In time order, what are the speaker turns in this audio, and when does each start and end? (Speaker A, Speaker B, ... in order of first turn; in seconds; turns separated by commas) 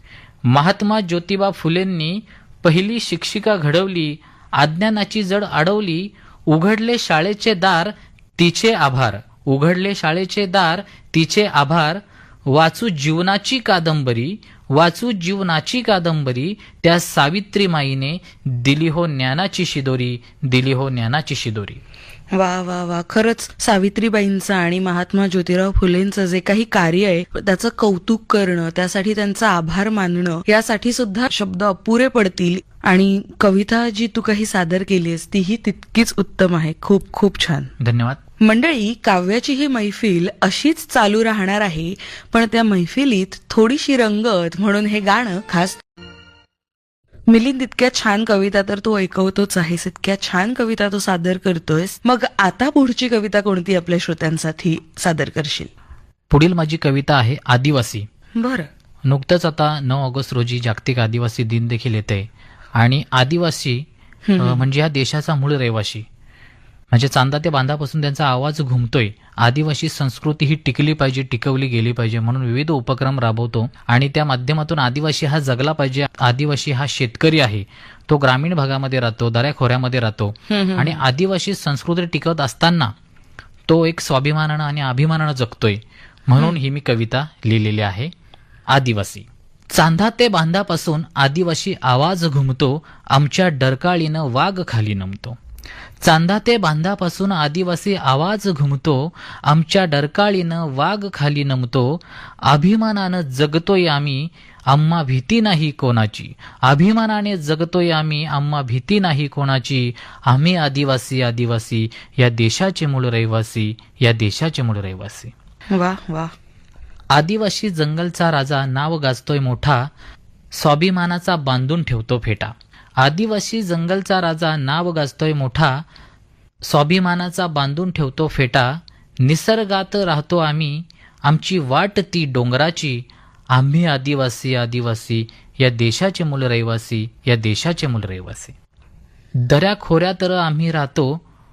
Speaker A: 0.5-21.8, Speaker B: 22.3-37.7, Speaker A: 37.8-38.2, Speaker B: 38.4-45.8, Speaker B: 47.3-55.7, Speaker A: 56.3-58.1, Speaker B: 58.4-58.7, Speaker A: 59.1-63.9, Speaker B: 64.3-64.7, Speaker A: 64.4-66.0, Speaker A: 66.9-82.9, Speaker B: 80.5-81.0, Speaker A: 83.7-88.1, Speaker A: 88.7-95.4, Speaker A: 96.0-115.3, Speaker B: 115.7-116.3, Speaker A: 117.1-119.9, Speaker A: 120.5-125.8, Speaker A: 126.7-138.6, Speaker A: 139.4-141.2